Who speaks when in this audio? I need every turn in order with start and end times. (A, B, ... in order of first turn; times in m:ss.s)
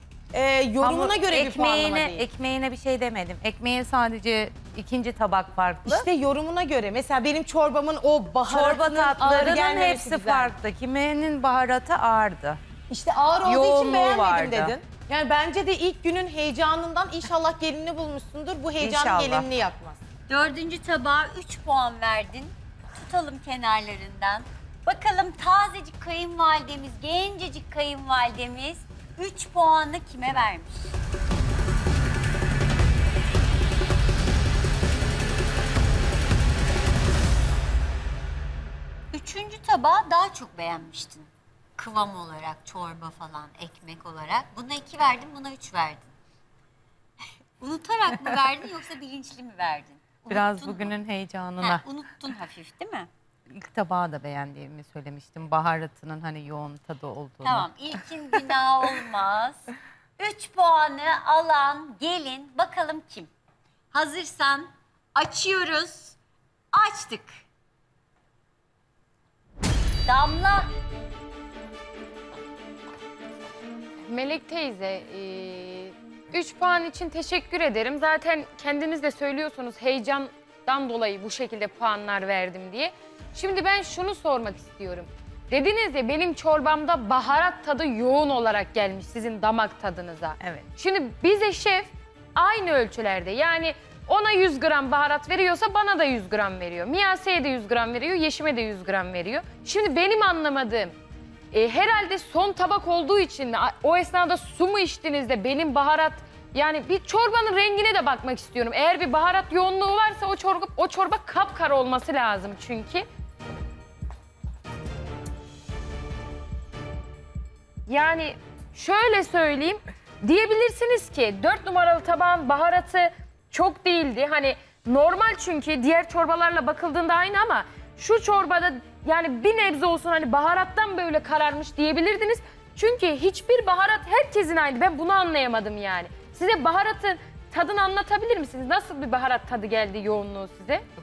0:00.3-0:02.2 A
0:00.8-0:06.1 B
0:05.9-0:10.5 A
0:08.5-0:12.6 B
0:12.9-0:20.0 A
0:13.4-0:14.8 B
0:18.8-0:19.5 B
0:20.3-0:31.0 C
0:39.1-0:46.0 C
0:47.6-0:51.0 C
0:50.3-0:51.8 B
0:51.6-0:53.1 C
0:53.5-0:57.7 B
0:57.4-1:03.3 C
1:03.9-1:06.2 C
1:06.7-1:07.3 C
1:10.1-1:10.7 C
1:14.1-1:41.0 D
1:30.4-1:30.7 B
1:41.5-1:53.1 D
1:57.9-2:20.8 D